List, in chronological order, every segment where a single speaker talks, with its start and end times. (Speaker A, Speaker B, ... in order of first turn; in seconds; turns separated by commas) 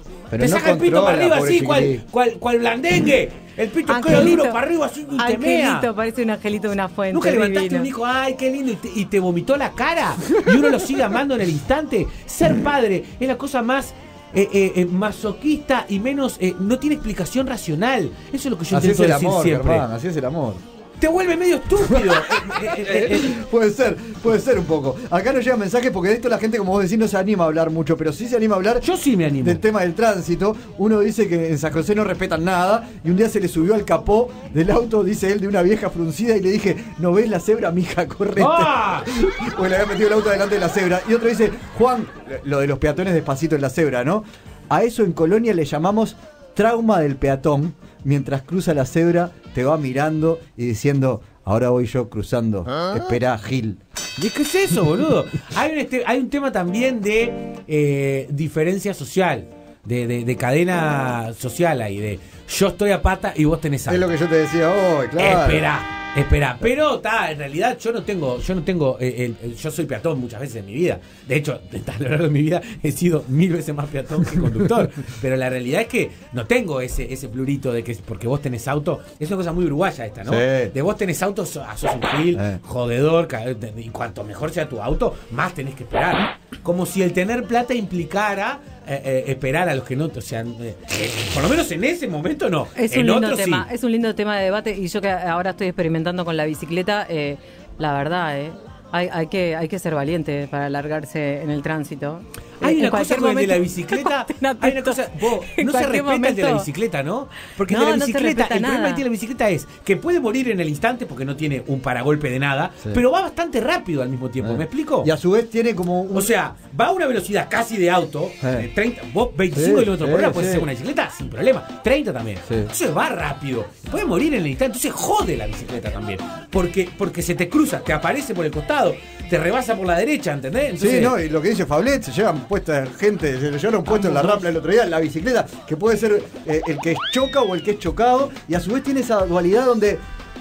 Speaker A: 0.3-2.0, Speaker B: 0.4-5.9, Speaker C: 3.9-4.6, Speaker C: 5.2-7.9, Speaker B: 7.1-19.8, Speaker A: 18.7-20.6, Speaker B: 21.0-23.4, Speaker A: 21.8-28.9, Speaker B: 28.8-29.6, Speaker A: 29.4-53.8, Speaker B: 38.4-39.1, Speaker B: 54.2-64.1, Speaker A: 63.9-65.7, Speaker B: 65.2-93.7, Speaker A: 80.2-80.7, Speaker A: 82.3-82.6, Speaker C: 92.8-106.7, Speaker B: 102.6-115.1, Speaker C: 107.7-109.0, Speaker A: 114.4-116.3, Speaker B: 116.1-131.2, Speaker A: 118.4-118.7, Speaker A: 119.5-120.7, Speaker A: 130.8-140.0, Speaker B: 133.9-134.4